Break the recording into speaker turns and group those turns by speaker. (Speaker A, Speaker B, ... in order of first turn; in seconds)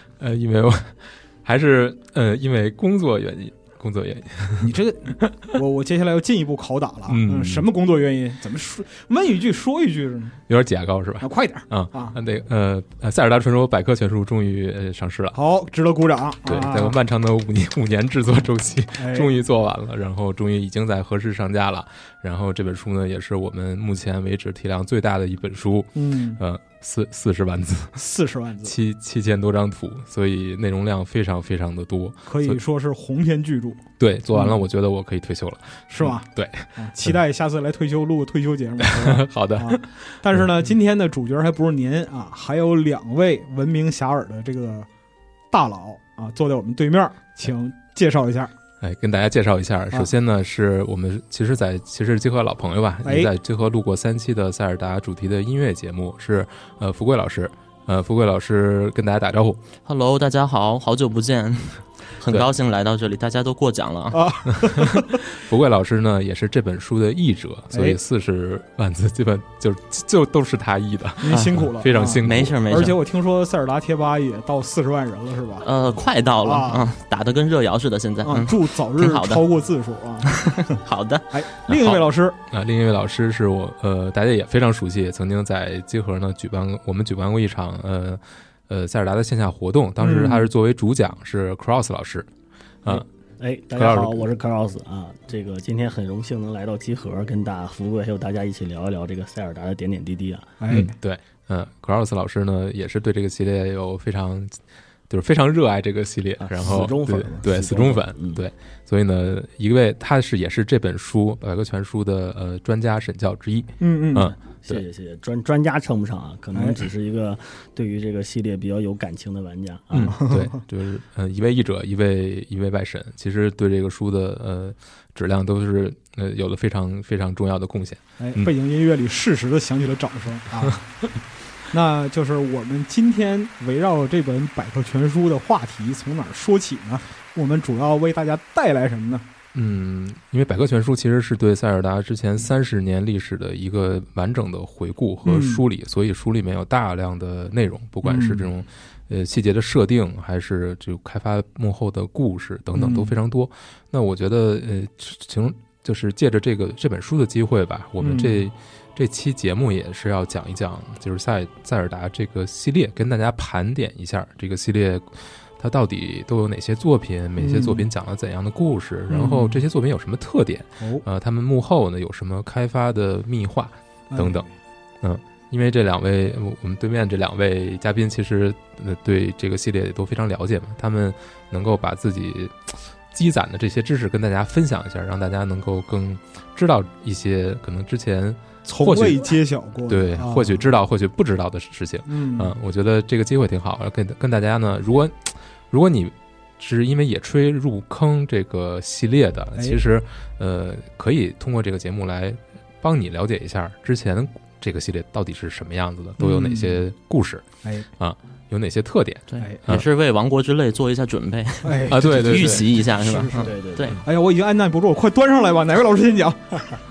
Speaker A: 0.2-4.7, 7.1-7.7, 10.5-15.4, 16.4-28.0, 28.6-32.6, 34.0-37.2, 38.9-39.8, 48.8-59.6, 64.6-72.6, 82.5-92.3, 93.7-94.2, 100.7-104.6, 105.1-114.8, 119.9-128.5, 139.5-174.4, 175.0-209.8, 211.9-212.7
Speaker B: 4.6-10.4, 11.2-12.2, 15.3-17.0, 19.0-19.3, 25.9-26.4, 27.9-28.8, 32.2-34.6, 35.9-44.9, 45.5-48.5, 53.0-53.3, 64.1-65.3, 67.7-68.0, 71.2-75.7, 76.4-76.9, 78.2-82.4, 90.0-90.5, 100.6-101.0, 113.8-114.3, 116.5-116.8, 120.0-120.5, 128.2-131.1, 131.7-139.2, 145.2-145.6, 148.0-148.5, 152.7-153.2, 158.0-158.4, 167.4-167.9, 169.1-169.6, 170.8-171.0, 174.1-174.5, 188.6-190.7, 192.1-192.6, 199.5-199.8, 206.2-206.8, 211.6-216.8
Speaker C: 59.9-64.2, 71.3-71.5, 72.2-73.0, 75.6-79.4, 80.3-82.0, 209.3-214.0
Speaker D: 92.8-100.5, 106.4-108.4, 114.5-120.2, 213.4-214.0